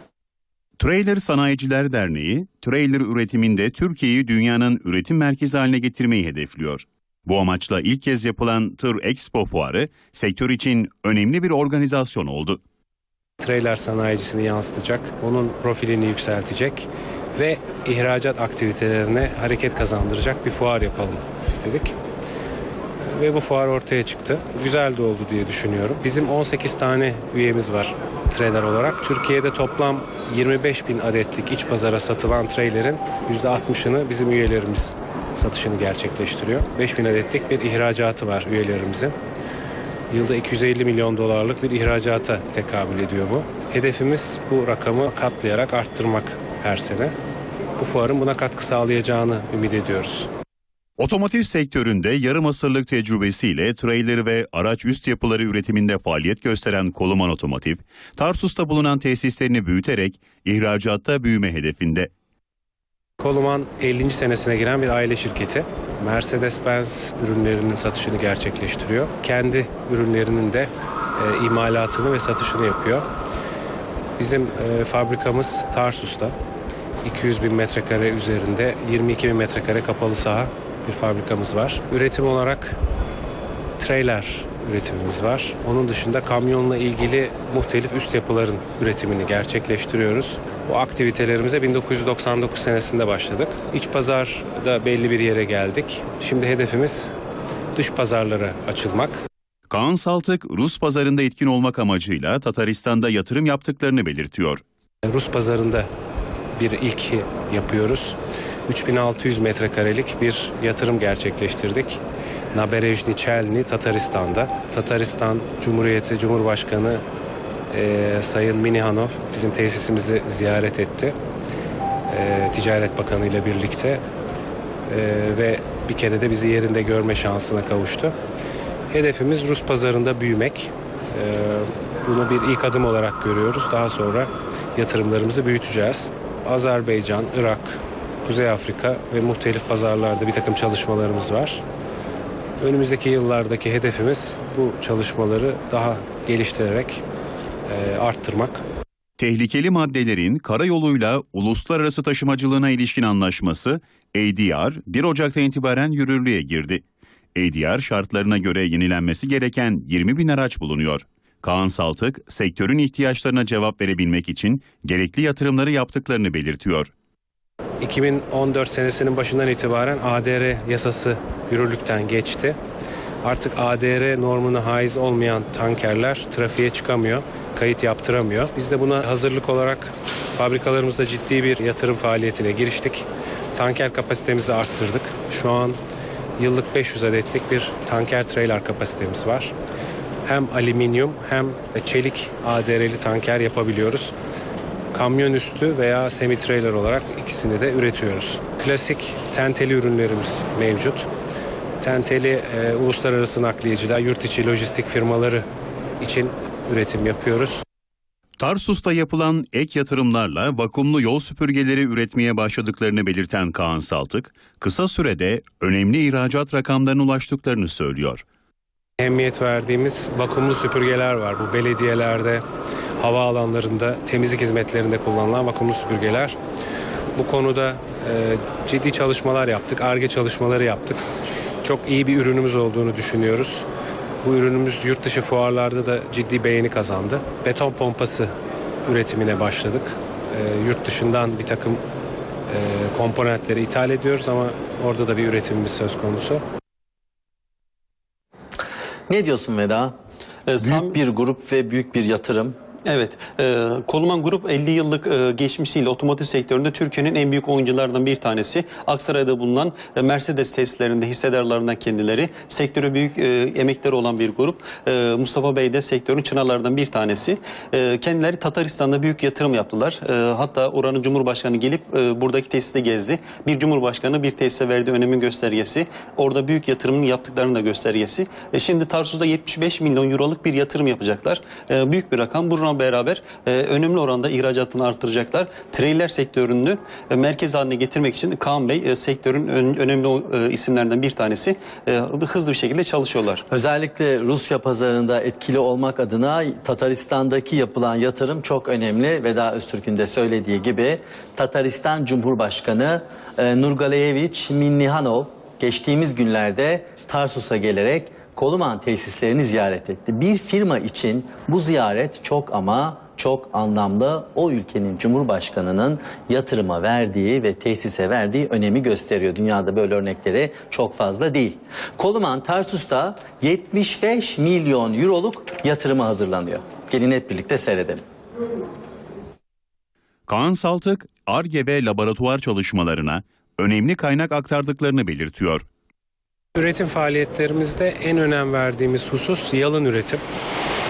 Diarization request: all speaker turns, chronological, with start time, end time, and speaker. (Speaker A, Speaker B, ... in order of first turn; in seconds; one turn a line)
Speaker A: 0.8-12.6
Speaker B: 13.4-21.9
Speaker B: 23.0-39.1
Speaker B: 40.1-47.1
Speaker B: 47.8-50.3
Speaker A: 51.0-62.1
Speaker B: 63.2-73.1
Speaker B: 74.2-76.3
Speaker B: 77.0-82.8
Speaker B: 83.8-97.1
Speaker B: 97.7-99.2
Speaker A: 99.7-104.6
Speaker B: 105.0-105.9
Speaker B: 106.5-112.0
Speaker B: 112.5-117.0
Speaker B: 117.7-121.1
Speaker B: 122.1-124.0
Speaker B: 124.9-128.1
Speaker B: 128.9-141.6
Speaker B: 142.6-147.0
Speaker B: 147.7-148.6
Speaker A: 149.2-156.8
Speaker A: 157.3-166.9
Speaker B: 167.8-172.6
Speaker B: 173.2-185.8
Speaker B: 186.4-189.5
Speaker B: 190.2-194.1
Speaker B: 194.9-201.1
Speaker B: 201.8-205.4
Speaker B: 206.0-207.6
Speaker A: 208.4-218.2
Speaker B: 219.0-222.4
Speaker B: 223.0-226.4
Speaker B: 227.2-231.0
Speaker B: 231.6-233.6
Speaker B: 234.2-238.3
Speaker B: 238.8-241.8
Speaker B: 242.5-246.4
Speaker C: 249.1-249.9
Speaker D: 250.5-250.9
Speaker C: 250.6-252.6
Speaker D: 252.8-293.4
Speaker C: 293.5-328.0
Speaker A: 330.3-335.6
Speaker B: 336.6-340.2